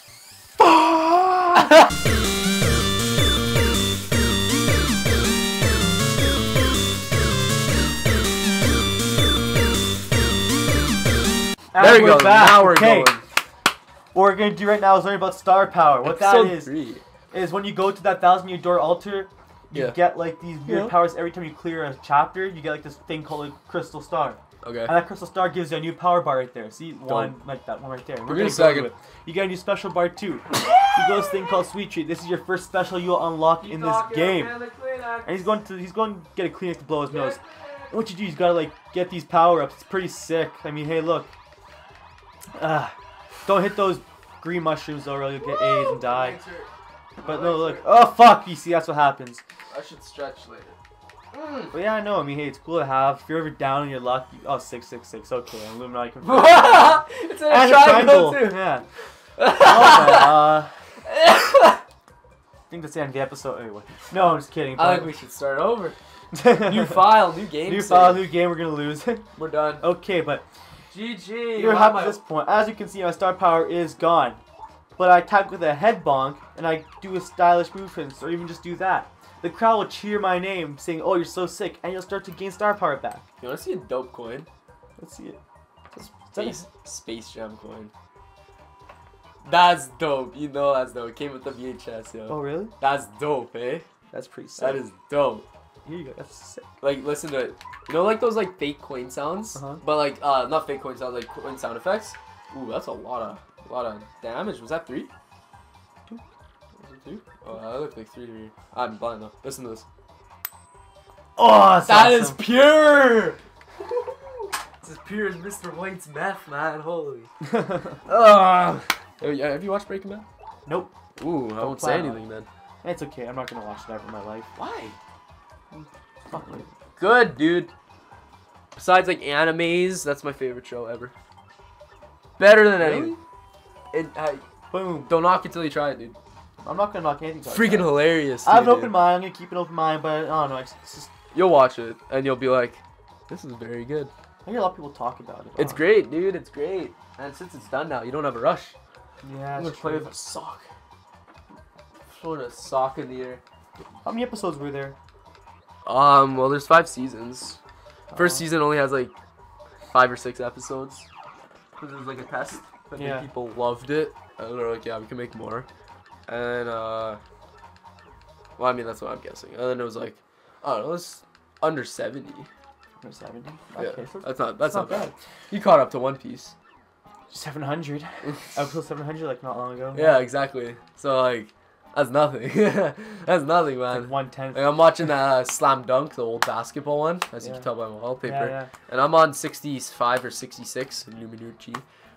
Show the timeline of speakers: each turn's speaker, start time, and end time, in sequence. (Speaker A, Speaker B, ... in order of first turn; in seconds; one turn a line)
Speaker A: 0.6-1.6
Speaker A: 11.7-13.2
Speaker B: 11.8-13.2
Speaker A: 14.1-16.7
Speaker B: 16.0-17.0
Speaker A: 17.3-34.6
Speaker B: 19.7-20.0
Speaker B: 20.6-20.9
Speaker B: 24.6-24.9
Speaker B: 27.0-27.4
Speaker B: 28.2-28.9
Speaker B: 30.5-31.5
Speaker B: 33.6-35.5
Speaker A: 35.2-41.3
Speaker B: 37.1-38.0
Speaker A: 42.5-42.9
Speaker A: 43.5-46.4
Speaker B: 45.5-47.9
Speaker A: 47.2-49.4
Speaker B: 49.7-50.8
Speaker B: 51.3-51.7
Speaker A: 51.7-58.9
Speaker B: 56.2-58.7
Speaker B: 59.4-61.8
Speaker A: 59.5-60.7
Speaker A: 62.7-65.1
Speaker B: 64.7-66.0
Speaker A: 66.3-67.0
Speaker B: 66.5-68.3
Speaker A: 67.6-69.3
Speaker B: 69.3-69.8
Speaker A: 69.8-70.5
Speaker B: 70.9-72.2
Speaker A: 71.5-74.4
Speaker A: 75.0-83.2
Speaker B: 83.4-84.5
Speaker A: 85.0-85.4
Speaker A: 85.9-86.6
Speaker B: 86.0-87.9
Speaker B: 89.4-93.8
Speaker A: 92.3-92.7
Speaker A: 94.1-94.8
Speaker B: 94.6-95.4
Speaker A: 95.8-96.7
Speaker B: 96.8-105.1
Speaker A: 99.5-99.8
Speaker B: 106.8-109.8
Speaker A: 111.4-112.4
Speaker B: 111.8-113.4
Speaker B: 114.8-117.3
Speaker A: 117.4-118.0
Speaker B: 118.0-120.2
Speaker A: 120.7-120.9
Speaker B: 121.2-122.5
Speaker A: 121.6-122.2
Speaker A: 122.8-124.5
Speaker B: 124.6-125.0
Speaker A: 125.7-126.7
Speaker B: 126.3-127.7
Speaker B: 128.8-131.1
Speaker B: 132.4-133.2
Speaker A: 132.8-133.2
Speaker B: 133.9-134.4
Speaker A: 134.7-135.1
Speaker B: 135.1-136.2
Speaker A: 136.6-141.1
Speaker B: 137.5-139.0
Speaker B: 141.3-144.1
Speaker A: 144.4-145.9
Speaker B: 145.6-148.8
Speaker A: 149.2-150.1
Speaker B: 149.6-150.7
Speaker B: 152.1-153.4
Speaker A: 154.0-154.9
Speaker B: 155.8-157.6
Speaker A: 158.1-158.4
Speaker B: 158.1-159.1
Speaker B: 159.9-161.1
Speaker B: 161.8-165.7
Speaker A: 163.0-163.3
Speaker B: 166.3-167.2
Speaker B: 168.6-172.5
Speaker A: 173.0-175.1
Speaker B: 173.8-176.5
Speaker A: 177.3-180.2
Speaker B: 179.9-191.8
Speaker A: 183.9-185.1
Speaker A: 187.4-187.7
Speaker A: 188.2-188.7